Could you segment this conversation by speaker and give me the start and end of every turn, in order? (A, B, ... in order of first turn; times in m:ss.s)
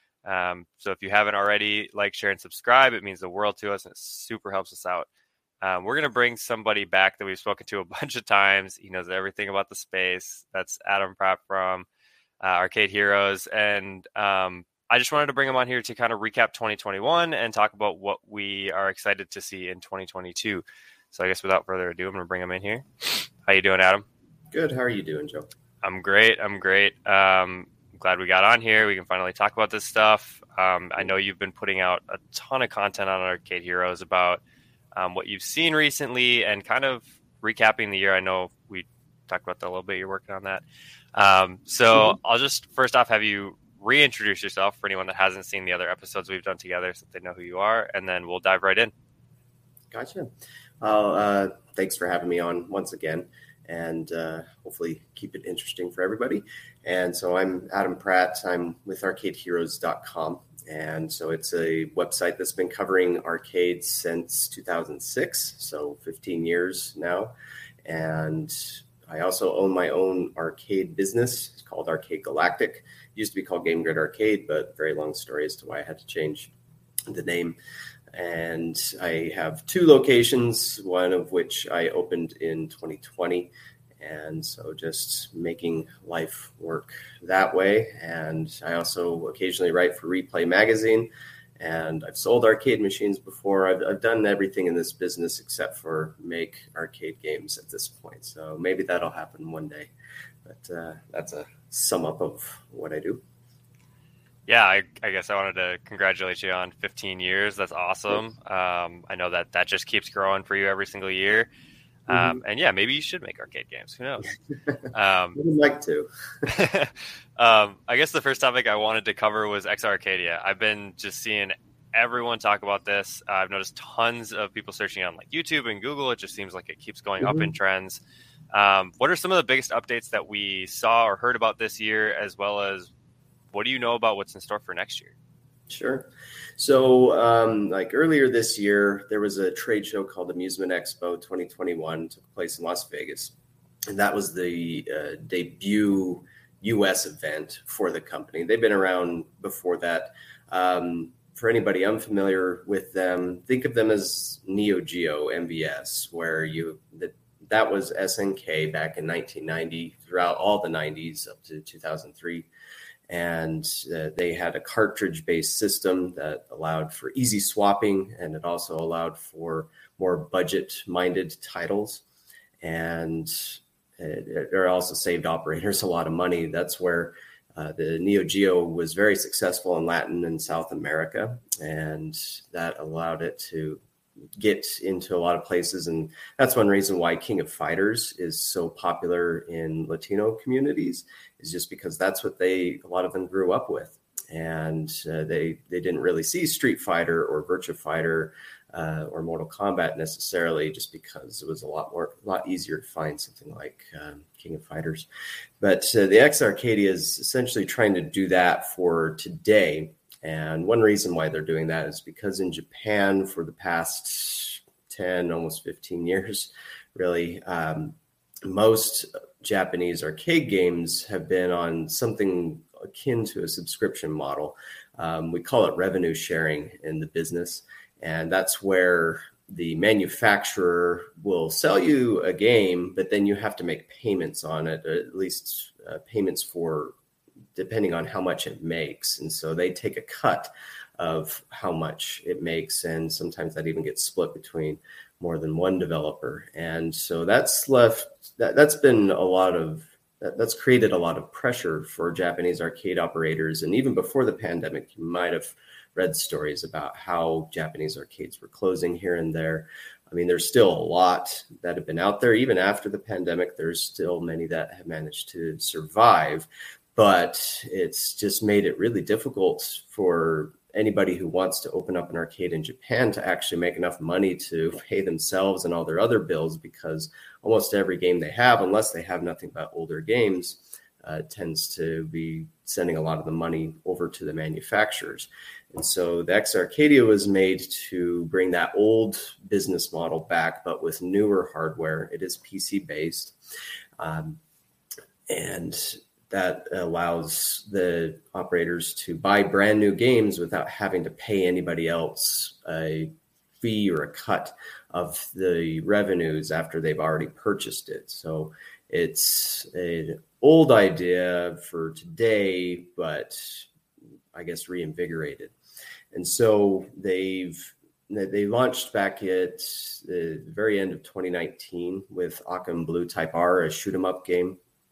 0:00.2-0:05.1 A
0:05.6-0:11.9 A
0:12.4-0:24.0 A
0:24.5-0:25.5 B
0:25.8-0:34.4 A
0:35.0-0:40.6 A
0:41.1-0:48.9 A
0:49.9-0:50.3 B
0:50.8-1:07.3 B
1:07.8-1:16.5 B
1:17.1-1:17.6 B
1:18.1-1:39.9 B
1:40.4-1:43.2 B
1:44.5-1:51.5 A
1:52.1-1:54.3 A
1:52.1-1:52.4 B
1:54.9-1:55.4 A
1:55.3-1:56.4 B
1:56.4-2:08.0 A
2:07.2-2:07.5 B
2:08.5-2:12.9 A
2:13.5-2:15.1 A
2:15.7-2:23.3 B
2:23.9-2:42.5 B
2:43.1-2:52.0 B
2:52.6-3:03.8 B
3:04.4-3:25.1 B
3:25.6-3:56.9 B
3:57.5-4:53.4 B
4:54.0-4:54.4 B
4:55.3-5:13.7 B
5:14.3-5:15.5 B
5:16.1-5:24.6 B